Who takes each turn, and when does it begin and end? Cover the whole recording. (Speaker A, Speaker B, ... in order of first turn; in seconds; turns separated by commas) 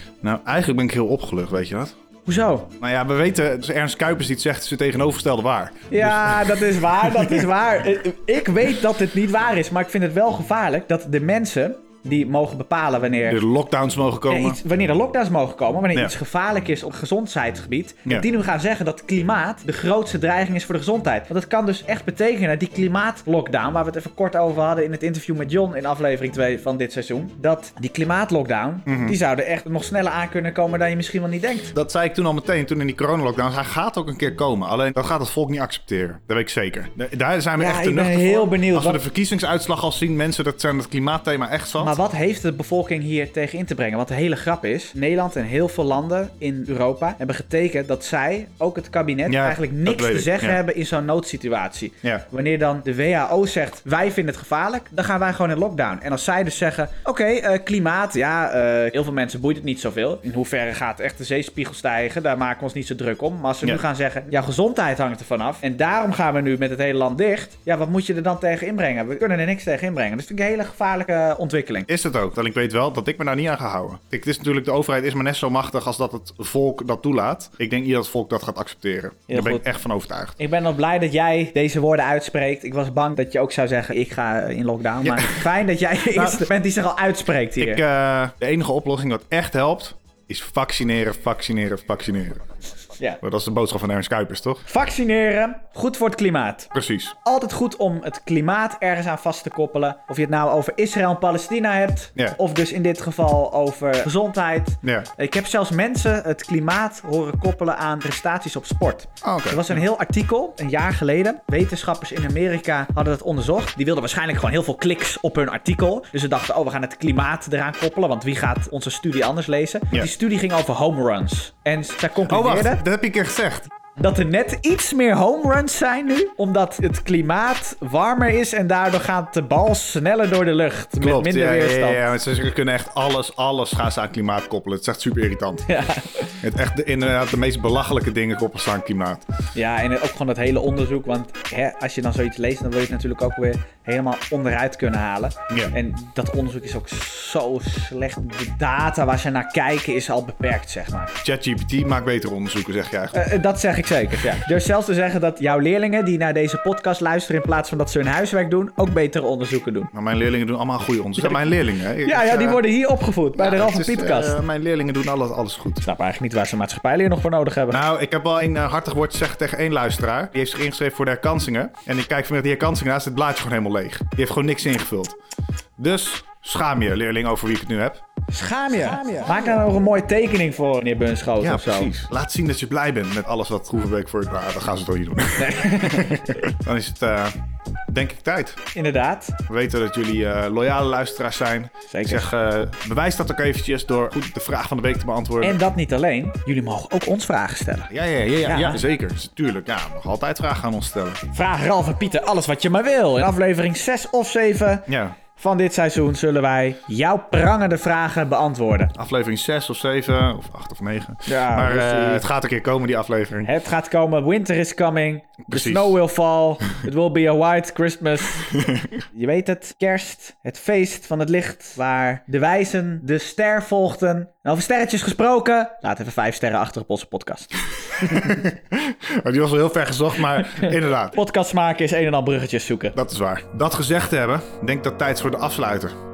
Speaker A: 0.2-2.0, Speaker B: 2.3-2.7, Speaker A: 2.8-7.5, Speaker B: 5.9-13.4, Speaker A: 13.3-14.6, Speaker B: 14.3-31.7, Speaker A: 28.9-29.2, Speaker A: 31.7-42.0, Speaker B: 37.6-39.0, Speaker B: 41.8-71.9, Speaker A: 49.3-50.6, Speaker A: 71.9-80.4, Speaker B: 79.3-79.7, Speaker B: 80.4-87.8, Speaker A: 85.0-85.5, Speaker A: 86.1-86.5, Speaker A: 87.6-92.4, Speaker A: 93.2-94.7, Speaker B: 94.7-96.7, Speaker A: 96.7-97.2, Speaker B: 97.2-122.8, Speaker A: 104.8-105.1, Speaker A: 109.2-109.8, Speaker A: 122.3-123.7, Speaker B: 124.0-132.0, Speaker A: 131.0-135.7, Speaker B: 135.7-136.4, Speaker A: 136.4-139.3, Speaker B: 139.6-151.1, Speaker A: 145.5-145.8, Speaker A: 151.2-153.2, Speaker B: 153.1-159.9, Speaker A: 159.9-162.7, Speaker B: 161.2-161.4, Speaker B: 162.0-164.4, Speaker A: 163.3-165.9, Speaker B: 165.8-167.8, Speaker A: 167.7-175.2, Speaker A: 175.8-178.0, Speaker B: 178.3-181.9, Speaker A: 181.4-187.4, Speaker B: 185.4-186.4, Speaker A: 187.9-188.6, Speaker B: 188.8-189.4, Speaker A: 189.5-195.6, Speaker B: 191.9-192.3, Speaker B: 195.4-197.9, Speaker A: 197.9-201.2, Speaker B: 198.4-198.8, Speaker B: 201.3-208.9, Speaker A: 204.9-205.2, Speaker A: 208.9-213.5, Speaker B: 211.3-212.3, Speaker B: 213.4-218.6, Speaker A: 215.5-216.0, Speaker B: 219.1-228.3, Speaker A: 228.0-231.2, Speaker B: 230.5-232.9, Speaker A: 232.9-236.0